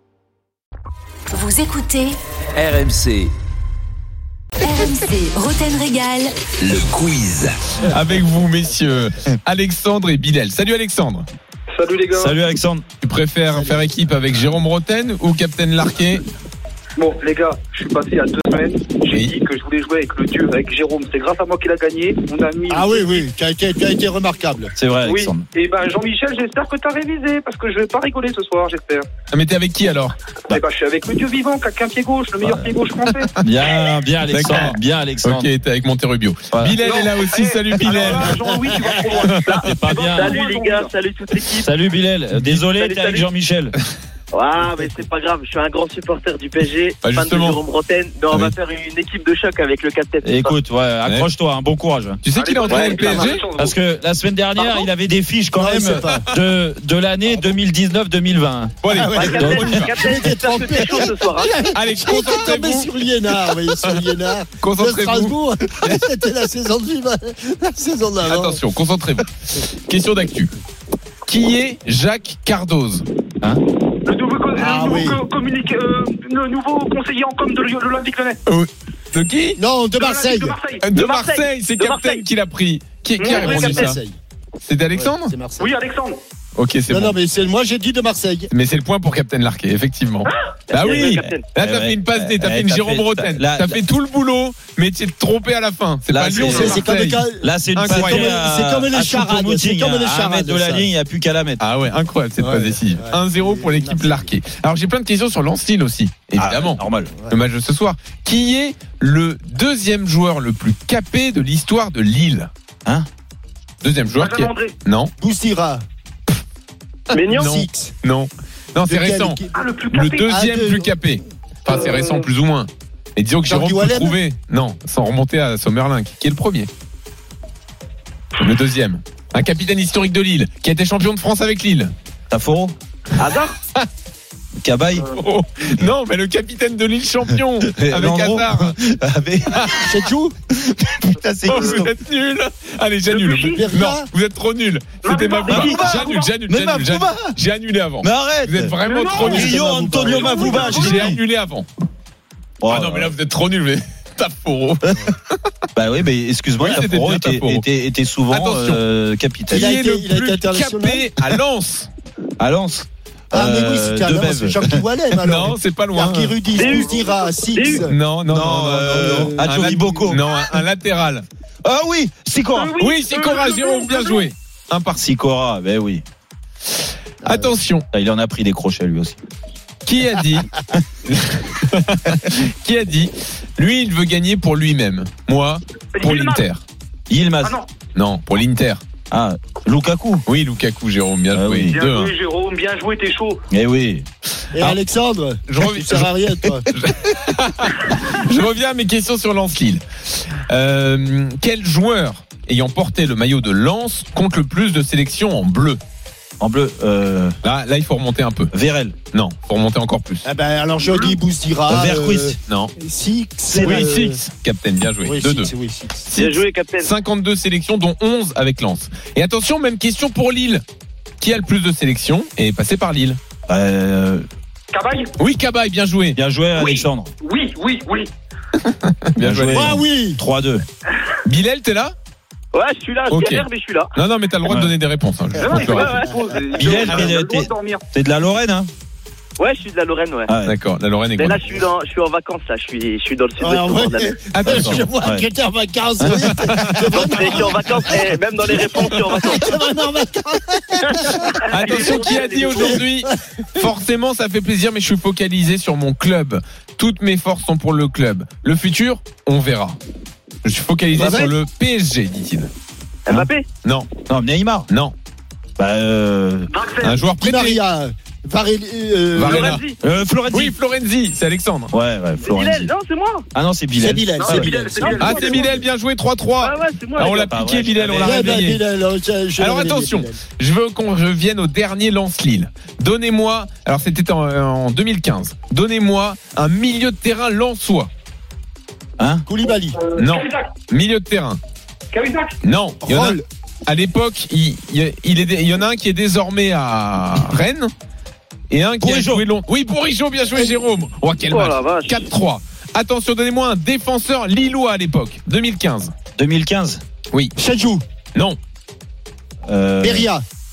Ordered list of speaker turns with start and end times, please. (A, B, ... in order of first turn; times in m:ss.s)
0:01.3-0:02.1 A
0:02.6-0:03.3 B
0:04.6-0:06.3 A
0:06.7-0:07.5 B
0:07.8-0:11.3 C
0:11.7-0:12.3 D
0:12.1-0:12.8 B
0:13.0-0:16.2 C
0:13.5-0:13.8 E
0:17.0-0:23.2 D
0:22.7-0:24.7 E
0:24.8-0:25.4 B
0:25.1-0:29.1 D
0:29.3-0:30.6 C
0:30.5-0:33.3 D
0:33.4-0:35.5 B
0:34.3-0:38.4 C
0:36.5-0:36.8 B
0:36.8-0:40.9 D
0:39.2-0:40.4 B
0:39.2-0:39.7 C
0:40.2-0:41.7 F
0:41.6-0:43.7 B
0:42.3-0:42.6 C
0:42.6-0:43.2 F
0:44.3-0:50.6 F
0:47.0-0:47.6 C
0:50.2-0:52.2 B
0:52.2-0:53.4 C
0:52.3-0:53.8 D
0:52.7-0:53.0 F
0:53.6-0:58.7 B
0:55.6-0:56.2 E
0:58.8-0:59.8 C
0:58.9-1:08.6 E
0:59.2-1:01.6 F
0:59.3-0:59.9 B
1:01.7-1:04.1 C
1:04.6-1:06.0 C
1:08.2-1:10.5 C
1:11.2-1:13.0 C
1:14.0-1:18.4 D
1:14.6-1:15.2 E
1:18.5-1:19.6 C
1:19.6-1:20.6 E
1:20.0-1:20.8 D
1:20.8-1:24.0 C
1:20.9-1:22.2 F
1:23.2-1:23.9 D
1:23.2-1:24.2 E
1:24.6-1:25.4 C
1:24.9-1:25.7 E
1:25.6-1:26.2 D
1:26.6-1:27.2 C
1:26.9-1:28.5 E
1:28.5-1:38.3 C
1:30.7-1:31.4 F
1:31.2-1:33.8 B
1:36.1-1:36.9 B
1:36.4-1:40.9 E
1:37.4-1:41.6 B
1:41.6-1:52.5 C
1:42.4-1:44.3 E
1:46.4-1:47.1 B
1:53.8-1:55.1 C
1:54.2-1:54.7 D
1:55.2-1:55.8 E
1:57.1-1:59.4 C
1:57.1-1:57.5 F
1:57.2-1:57.9 E
1:58.9-1:59.6 E
1:59.5-2:00.3 D
1:59.9-2:06.7 C
2:00.2-2:00.9 E
2:01.9-2:02.2 D
2:03.4-2:04.2 E
2:08.4-2:11.9 C
2:12.3-2:12.7 B
2:13.2-2:13.6 F
2:13.2-2:13.8 C
2:14.6-2:15.1 B
2:15.1-2:18.8 C
2:17.3-2:20.1 B
2:19.5-2:19.8 C
2:19.8-2:20.3 E
2:20.6-2:21.9 B
2:21.4-2:29.6 C
2:23.1-2:23.7 D
2:23.5-2:24.1 E
2:25.0-2:26.3 D
2:25.5-2:27.4 B
2:28.0-2:31.2 B
2:28.8-2:29.3 D
2:29.2-2:30.9 E
2:30.1-2:30.9 D
2:30.7-2:31.7 C
2:32.6-2:33.1 B
2:32.7-2:35.4 C
2:35.8-2:39.7 B
2:36.6-2:37.7 C
2:38.3-2:38.8 C
2:39.5-2:41.9 C
2:39.5-2:41.1 E
2:42.4-2:44.8 B
2:43.3-2:47.9 E
2:45.2-2:46.5 C
2:46.5-2:47.9 F
2:47.8-2:51.2 C
2:48.3-2:50.2 B
2:48.9-2:50.1 E
2:51.6-2:52.8 B
2:52.5-2:54.2 D
2:52.8-2:55.1 C
2:55.0-2:56.0 B
2:57.2-2:57.8 C
2:57.9-2:59.2 B
2:59.8-3:00.5 C
3:01.1-3:06.6 C
3:06.0-3:06.4 D
3:07.1-3:07.6 B
3:07.4-3:07.7 D
3:07.9-3:08.8 C
3:09.1-3:10.2 B
3:10.2-3:12.1 C
3:11.3-3:11.8 B
3:11.7-3:13.4 D
3:13.5-3:14.1 B
3:14.5-3:16.7 E
3:15.5-3:16.1 C
3:16.7-3:25.8 C
3:26.4-3:27.4 B
3:27.4-3:28.5 C
3:28.5-3:29.0 B
3:29.1-3:30.2 C
3:30.2-3:34.2 E
3:31.7-3:32.4 B
3:32.5-3:32.7 C
3:33.5-3:33.8 B
3:33.6-3:35.5 C
3:35.0-3:36.1 E
3:36.1-3:40.6 C
3:36.1-3:36.9 F
3:41.2-3:43.2 C
3:43.5-3:44.3 B
3:44.7-3:45.1 D
3:45.2-3:46.2 C
3:46.2-3:47.1 B
3:46.6-3:48.1 D
3:48.6-3:49.7 C
3:49.2-3:50.6 B
3:49.5-3:50.2 E
3:51.2-3:52.0 C
3:52.5-3:54.0 F
3:53.1-3:56.0 C
3:54.4-3:54.7 B
3:55.4-3:57.8 D
3:55.8-3:56.1 F
3:56.5-3:58.7 B
3:56.8-3:57.0 C
3:59.4-4:00.3 F
4:00.3-4:00.5 B
4:00.4-4:01.6 C
4:01.2-4:04.2 F
4:03.4-4:13.1 E
4:04.3-4:04.9 C
4:04.4-4:05.3 B
4:06.0-4:06.4 B
4:06.3-4:07.2 C
4:06.9-4:09.6 F
4:10.8-4:12.8 F
4:11.5-4:19.8 C
4:20.4-4:22.5 C
4:21.0-4:21.3 E
4:23.1-4:23.5 F
4:23.6-4:23.9 C
4:24.1-4:24.7 B
4:24.7-4:24.9 C
4:25.6-4:26.5 B
4:26.6-4:26.9 D
4:26.8-4:27.6 C
4:27.2-4:29.6 E
4:29.2-4:29.6 C
4:29.3-4:29.7 F
4:29.8-4:30.5 B
4:30.3-4:31.7 C
4:31.7-4:32.7 B
4:32.2-4:33.2 F
4:33.3-4:34.5 B
4:33.8-4:35.0 E
4:34.2-4:35.6 D
4:34.3-4:35.4 F
4:34.9-4:38.6 C
4:36.4-4:37.2 F
4:37.0-4:38.3 B
4:38.0-4:40.2 E
4:39.4-4:47.9 C
4:49.0-4:49.3 B
4:49.3-4:49.8 E
4:50.0-4:51.4 C
4:51.9-4:52.3 D
4:52.4-4:57.7 C
4:52.8-4:53.2 E
4:58.5-5:05.9 C
4:58.8-4:59.2 B
5:01.3-5:02.0 F
5:06.2-5:06.8 B
5:07.4-5:07.8 E
5:09.5-5:10.1 B
5:09.8-5:10.2 E